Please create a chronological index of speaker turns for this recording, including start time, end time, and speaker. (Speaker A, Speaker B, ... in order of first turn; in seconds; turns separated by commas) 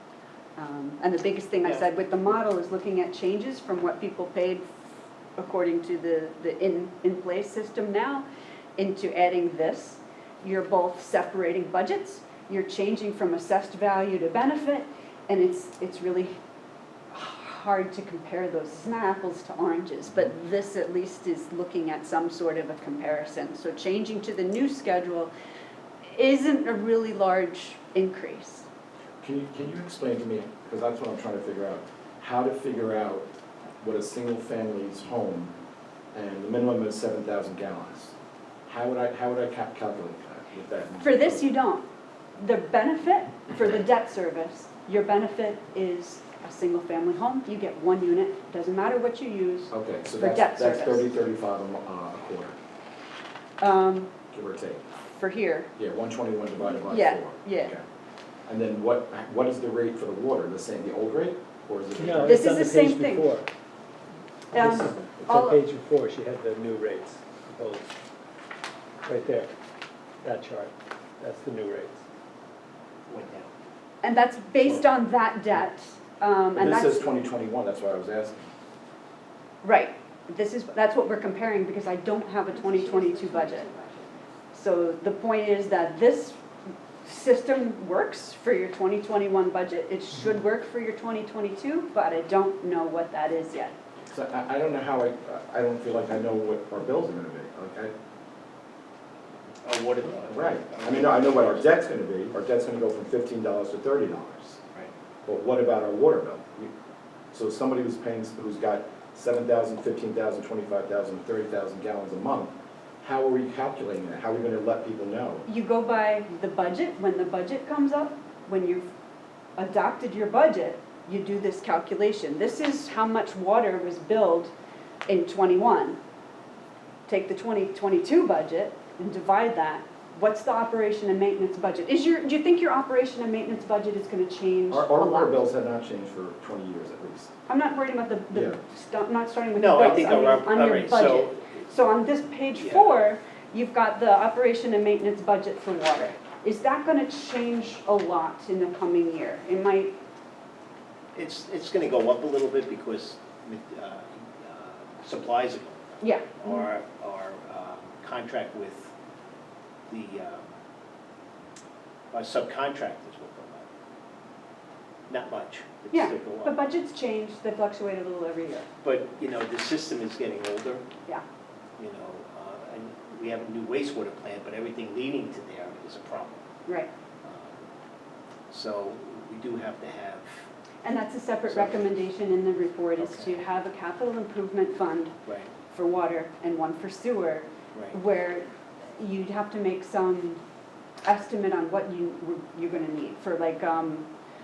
Speaker A: 0.6-4.8, Speaker A: 5.4-8.2, Speaker A: 8.8-16.4, Speaker A: 17.1-25.3, Speaker A: 26.1-28.7, Speaker B: 29.2-33.3, Speaker B: 33.8-35.5, Speaker B: 36.1-38.1, Speaker B: 38.7-41.5, Speaker A: 41.0-41.9, Speaker A: 42.4-51.0, Speaker B: 49.7-52.6, Speaker A: 53.6-54.1, Speaker B: 54.3-54.8, Speaker A: 55.1-55.7, Speaker B: 55.8-57.8, Speaker A: 56.8-57.7, Speaker B: 58.5-62.5, Speaker C: 62.0-63.5, Speaker A: 62.2-63.3, Speaker A: 64.5-65.6, Speaker C: 64.5-67.9, Speaker C: 69.0-69.5, Speaker C: 70.2-72.0, Speaker D: 73.1-73.5, Speaker A: 74.0-77.0, Speaker B: 76.5-78.5, Speaker A: 79.6-83.7, Speaker C: 82.6-84.3, Speaker A: 84.5-86.4, Speaker A: 87.0-93.8, Speaker B: 94.1-97.9, Speaker D: 99.6-101.7, Speaker B: 100.3-104.6, Speaker B: 105.2-106.7, Speaker B: 107.3-115.5, Speaker A: 115.5-118.9, Speaker A: 119.6-124.5, Speaker A: 125.1-126.0, Speaker A: 127.1-135.4, Speaker B: 134.7-137.3, Speaker A: 137.5-149.9, Speaker B: 138.3-138.6, Speaker D: 139.6-141.5, Speaker D: 142.6-142.9, Speaker D: 151.2-158.9, Speaker A: 156.0-156.7, Speaker D: 159.9-160.5, Speaker D: 162.1-163.7, Speaker D: 165.1-166.6, Speaker A: 165.9-168.7, Speaker D: 168.8-170.8, Speaker D: 171.8-176.4, Speaker D: 177.2-177.6, Speaker D: 178.5-180.5, Speaker A: 180.8-185.2, Speaker D: 181.5-181.8, Speaker D: 183.0-183.4, Speaker D: 185.2-185.5, Speaker A: 185.7-190.4, Speaker A: 191.0-194.1